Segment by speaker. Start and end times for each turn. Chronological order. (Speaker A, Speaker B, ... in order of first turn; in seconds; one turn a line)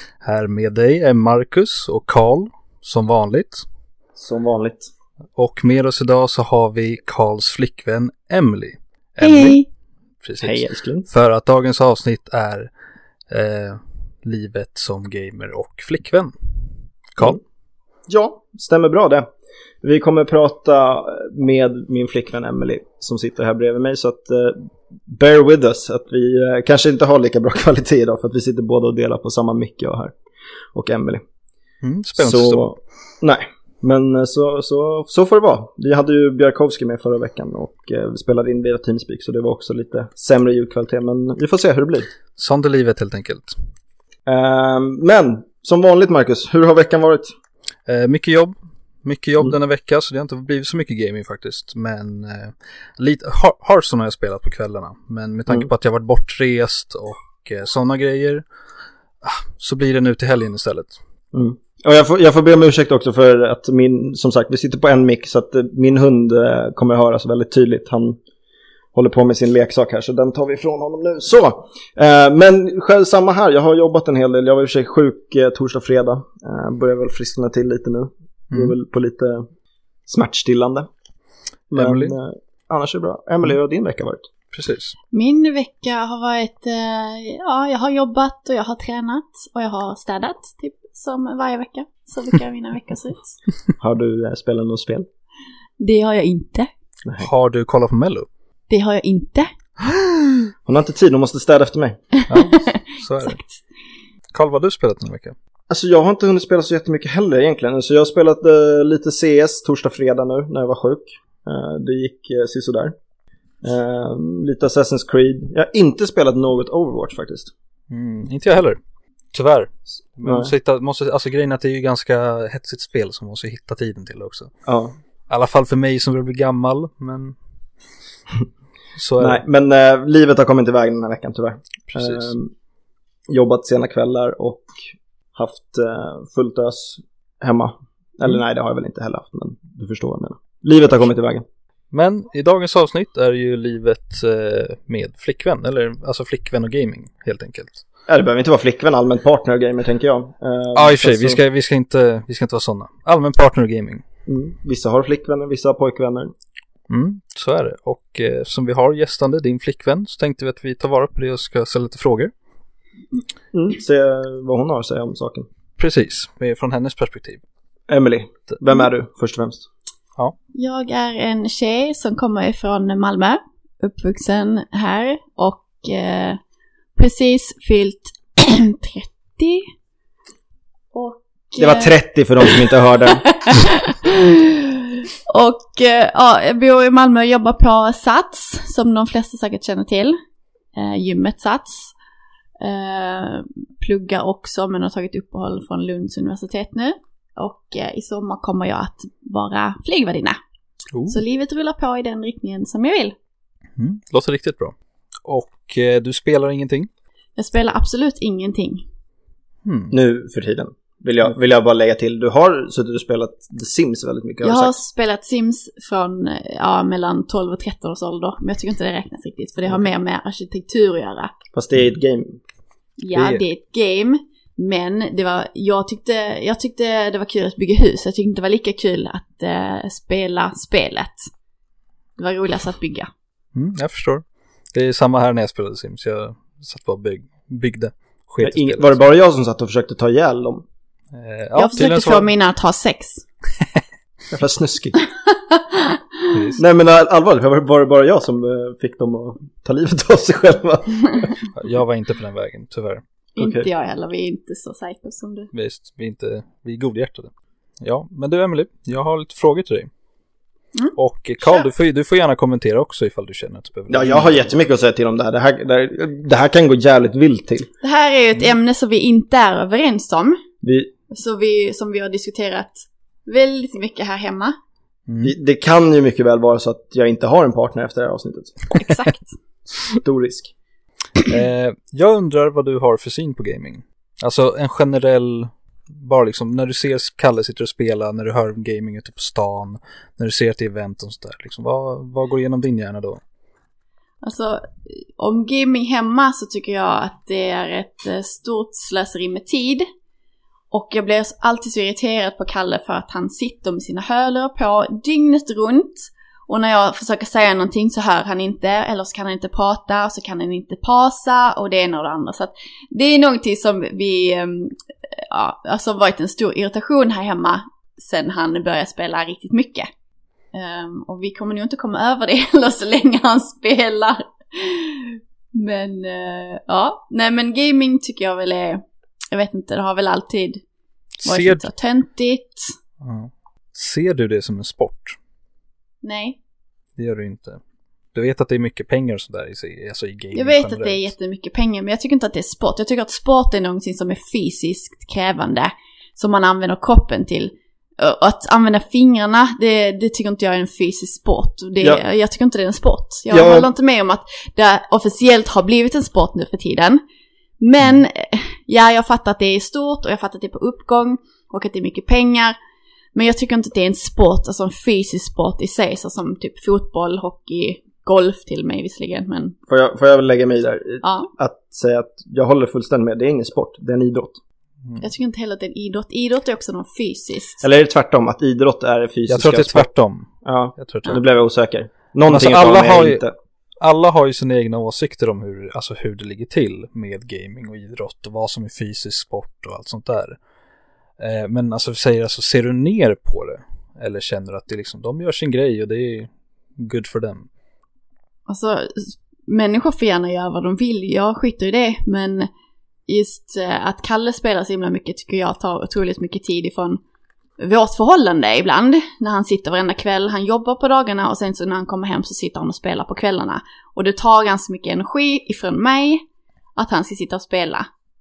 Speaker A: 0.2-3.6
Speaker B: 4.2-4.9
Speaker A: 5.4-9.6
Speaker C: 9.2-9.7
Speaker A: 10.2-12.7
Speaker B: 10.4-11.1
Speaker A: 13.3-16.3
Speaker B: 18.1-19.3
Speaker B: 19.8-30.1
Speaker B: 30.7-31.2
Speaker A: 31.8-32.6
Speaker B: 32.2-42.1
Speaker A: 42.4-43.5
Speaker B: 44.3-47.3
Speaker A: 47.9-58.4
Speaker A: 59.2-61.0
Speaker B: 61.3-68.2
Speaker B: 68.9-79.5
Speaker B: 80.1-80.9
Speaker B: 81.7-84.3
Speaker A: 81.7-82.2
Speaker A: 84.5-85.0
Speaker C: 85.1-93.4
Speaker B: 93.8-95.1
Speaker C: 95.8-96.7
Speaker A: 97.2-98.3
Speaker C: 98.7-99.5
Speaker B: 100.7-102.0
Speaker C: 102.2-103.5
Speaker A: 102.3-103.4
Speaker A: 104.3-105.3
Speaker B: 105.7-113.0
Speaker B: 113.6-117.5
Speaker A: 117.9-118.8
Speaker A: 119.3-124.5
Speaker B: 120.2-120.5
Speaker B: 124.7-125.0
Speaker A: 125.3-127.4
Speaker A: 129.0-129.4
Speaker B: 129.2-132.5
Speaker A: 131.9-132.3
Speaker B: 133.3-141.4
Speaker A: 141.9-147.8
Speaker B: 148.1-151.4
Speaker A: 150.8-154.0
Speaker B: 154.3-156.3
Speaker A: 156.9-162.3
Speaker B: 163.5-165.5
Speaker A: 165.8-167.4
Speaker B: 167.9-169.7
Speaker C: 170.6-176.4
Speaker C: 177.0-179.7
Speaker C: 180.9-181.9
Speaker B: 181.6-183.2
Speaker C: 183.3-184.8
Speaker C: 185.3-190.2
Speaker C: 190.8-191.9
Speaker C: 192.6-200.4
Speaker A: 200.9-201.2
Speaker C: 201.1-203.2
Speaker A: 203.8-206.9
Speaker C: 207.4-208.8
Speaker A: 209.7-210.0
Speaker B: 209.9-214.8
Speaker C: 214.4-221.3
Speaker B: 221.5-222.4
Speaker C: 223.0-231.3
Speaker A: 223.1-223.4
Speaker C: 232.2-233.1
Speaker A: 233.6-239.0
Speaker B: 238.4-240.7
Speaker A: 241.1-242.3
Speaker C: 241.6-243.3
Speaker B: 244.3-245.0
Speaker C: 245.3-246.3
Speaker A: 246.3-246.6
Speaker B: 246.6-251.3
Speaker A: 251.6-253.0
Speaker C: 253.4-255.5
Speaker B: 253.4-253.7
Speaker A: 255.5-259.9
Speaker A: 261.0-264.5
Speaker B: 263.9-267.7
Speaker C: 267.8-270.4
Speaker B: 270.6-270.9
Speaker C: 271.1-274.6
Speaker A: 275.1-275.3
Speaker B: 275.2-278.8
Speaker C: 278.7-279.3
Speaker B: 280.0-280.5
Speaker A: 281.2-293.2
Speaker C: 294.2-299.9
Speaker C: 300.7-319.9
Speaker C: 320.5-330.6
Speaker A: 331.2-331.6
Speaker C: 331.2-332.7
Speaker A: 333.0-335.2
Speaker C: 336.0-336.4
Speaker A: 337.0-337.6
Speaker A: 338.1-341.1
Speaker C: 340.4-357.0
Speaker B: 353.3-353.7
Speaker C: 357.6-362.6
Speaker C: 363.1-369.6
Speaker B: 369.7-374.4
Speaker C: 371.0-371.3
Speaker C: 375.0-377.6
Speaker B: 377.6-379.9
Speaker A: 379.3-381.2
Speaker B: 380.4-383.3
Speaker A: 382.3-383.2
Speaker A: 383.8-390.4
Speaker A: 391.2-397.5
Speaker C: 398.5-402.5
Speaker C: 403.1-407.0
Speaker C: 407.6-416.2
Speaker C: 416.8-417.9